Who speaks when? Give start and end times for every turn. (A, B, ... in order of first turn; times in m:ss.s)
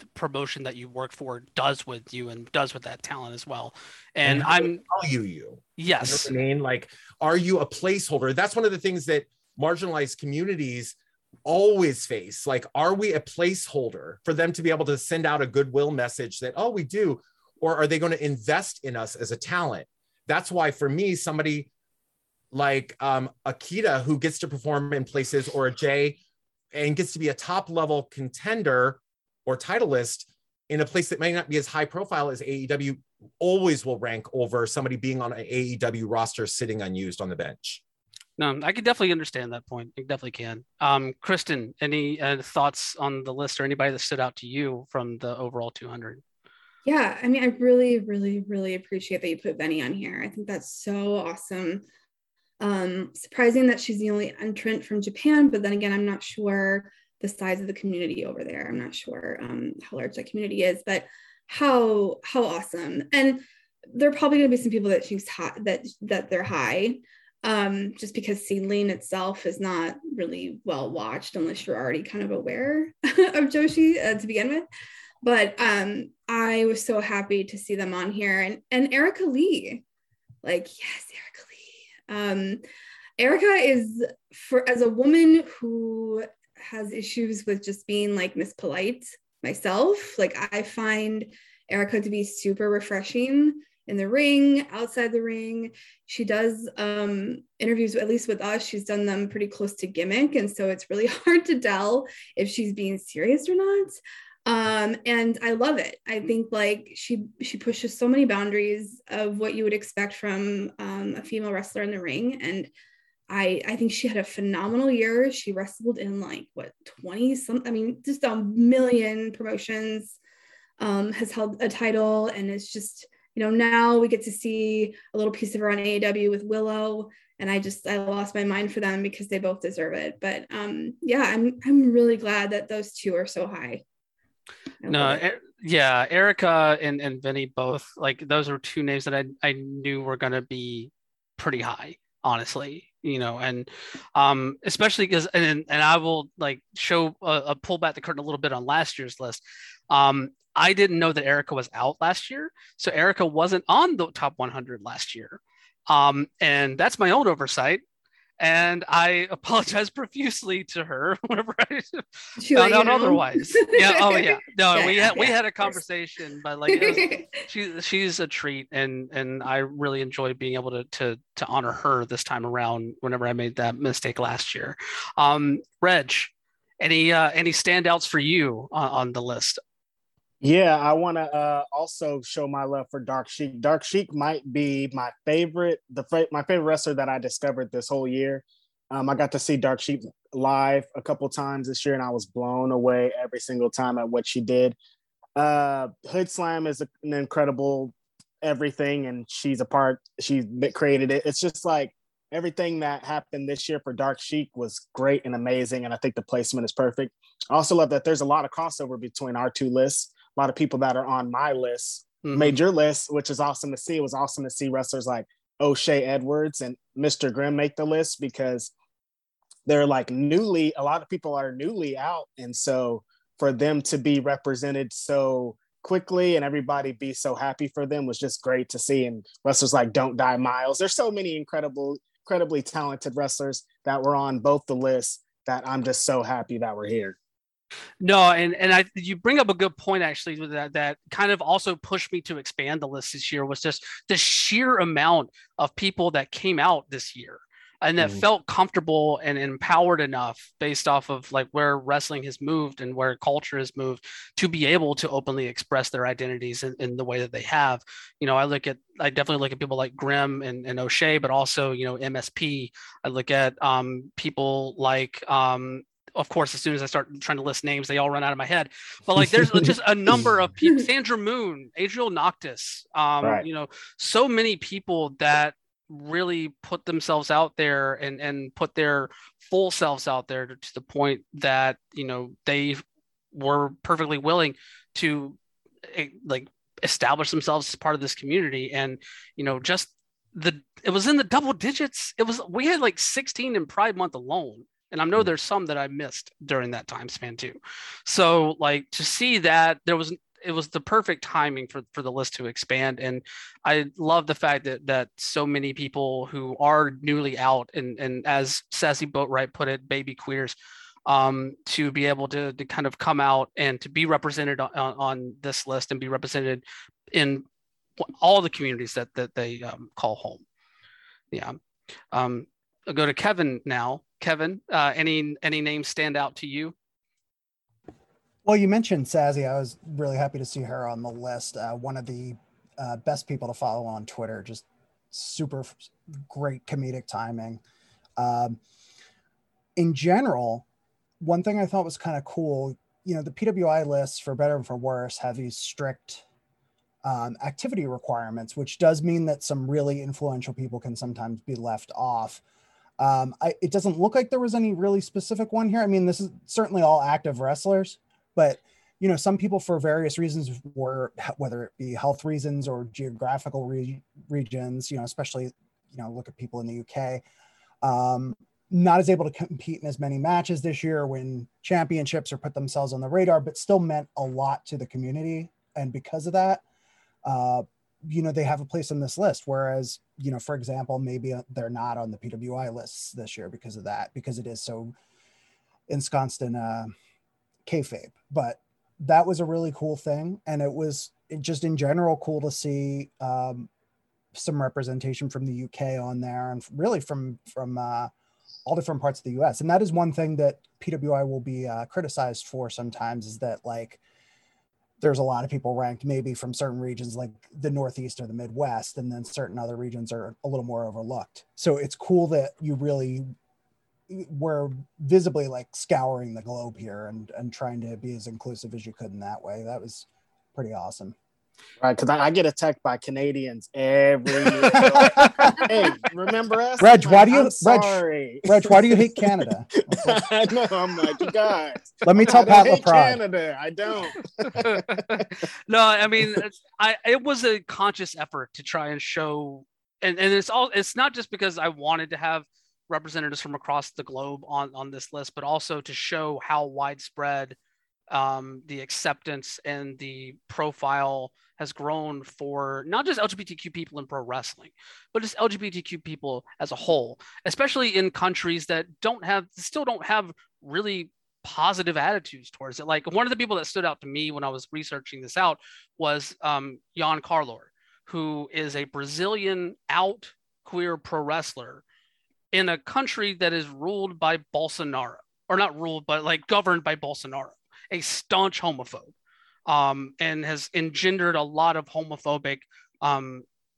0:00.2-0:04.8 A
0:04.2-0:21.7 B
0:05.8-0:06.3 A
0:22.5-0:26.2 B
0:26.7-0:37.8 B
0:38.4-0:46.2 A
0:46.8-0:51.8 C
0:52.6-1:14.6 C
1:15.2-1:19.8 C
1:20.4-1:22.6 C
1:23.2-1:52.7 C
1:53.3-2:00.2 C
2:00.8-2:13.8 C
2:14.8-2:15.2 C
2:14.9-2:37.8 A
2:38.4-2:59.6 A
2:42.4-2:45.3 C
2:46.7-2:47.3 C
3:00.4-3:14.8 D
3:15.4-3:38.7 D
3:32.2-3:32.6 A
3:39.7-3:57.2 D
3:58.0-5:17.4 A
4:29.2-4:30.3 D
5:18.0-5:20.4 A
5:21.3-5:21.6 A
5:22.1-5:26.8 A
5:28.4-5:37.6 E
5:38.2-5:38.6 E
5:39.8-5:40.6 E
5:41.2-5:46.2 E
5:47.0-5:52.4 E
5:53.0-6:07.2 E
6:07.8-6:16.6 E
6:17.2-6:25.0 E
6:25.9-6:26.9 E
6:27.7-6:33.7 E
6:34.3-6:38.1 E
6:38.7-6:44.0 E
6:45.0-6:53.3 E
6:54.1-7:01.2 E
7:01.8-7:15.3 D
7:04.6-7:05.7 E
7:06.8-7:10.2 E
7:12.0-7:13.2 E
7:14.4-7:27.6 A
7:28.1-7:51.8 A
7:52.5-7:59.1 A
7:59.7-8:03.4 A